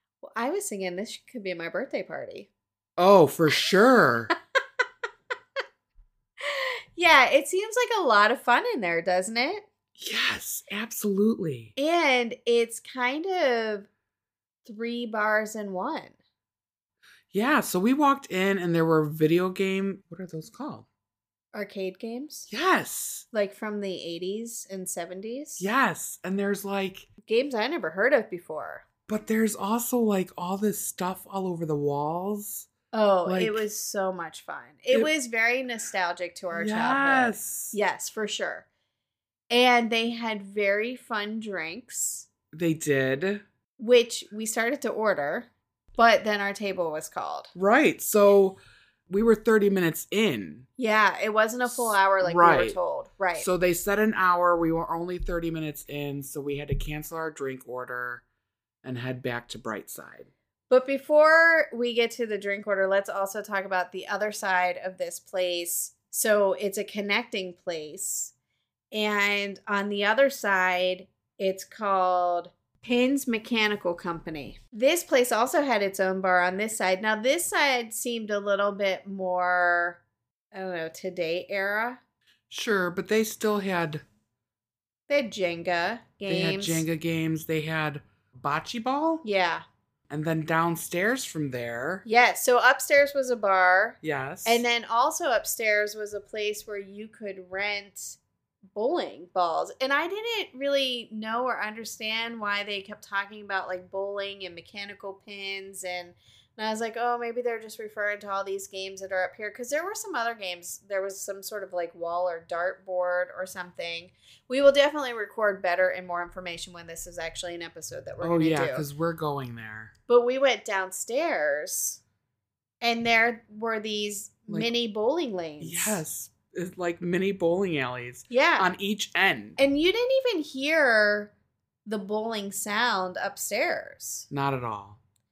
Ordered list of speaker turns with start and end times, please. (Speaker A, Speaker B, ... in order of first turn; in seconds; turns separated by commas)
Speaker A: 0.2-2.5, Speaker B: 3.0-4.3, Speaker A: 6.4-9.7, Speaker B: 10.0-11.7, Speaker A: 11.8-13.9, Speaker A: 14.6-16.2, Speaker B: 17.3-20.9, Speaker A: 21.5-22.5, Speaker B: 22.5-23.3, Speaker A: 23.3-25.7, Speaker B: 25.6-27.1, Speaker A: 27.2-28.9, Speaker B: 29.1-32.7, Speaker A: 32.9-38.7, Speaker B: 33.2-33.6, Speaker B: 36.5-37.8, Speaker A: 39.5-42.3, Speaker B: 42.5-43.4, Speaker A: 43.8-47.5, Speaker B: 47.5-50.7, Speaker A: 50.8-53.5, Speaker B: 51.7-52.8, Speaker B: 53.3-58.2, Speaker B: 58.8-60.3, Speaker A: 60.7-68.3, Speaker A: 68.9-80.0, Speaker A: 80.5-82.0, Speaker B: 82.5-84.0, Speaker A: 85.1-86.8, Speaker B: 86.3-89.2, Speaker A: 89.2-89.7, Speaker B: 90.1-92.0, Speaker A: 92.0-98.2, Speaker B: 94.0-94.6, Speaker A: 98.7-118.8, Speaker B: 118.2-119.9, Speaker A: 120.1-122.0, Speaker A: 122.8-126.0, Speaker B: 125.6-129.6, Speaker A: 128.3-128.7, Speaker A: 129.6-131.3, Speaker A: 131.8-134.3, Speaker B: 134.3-135.0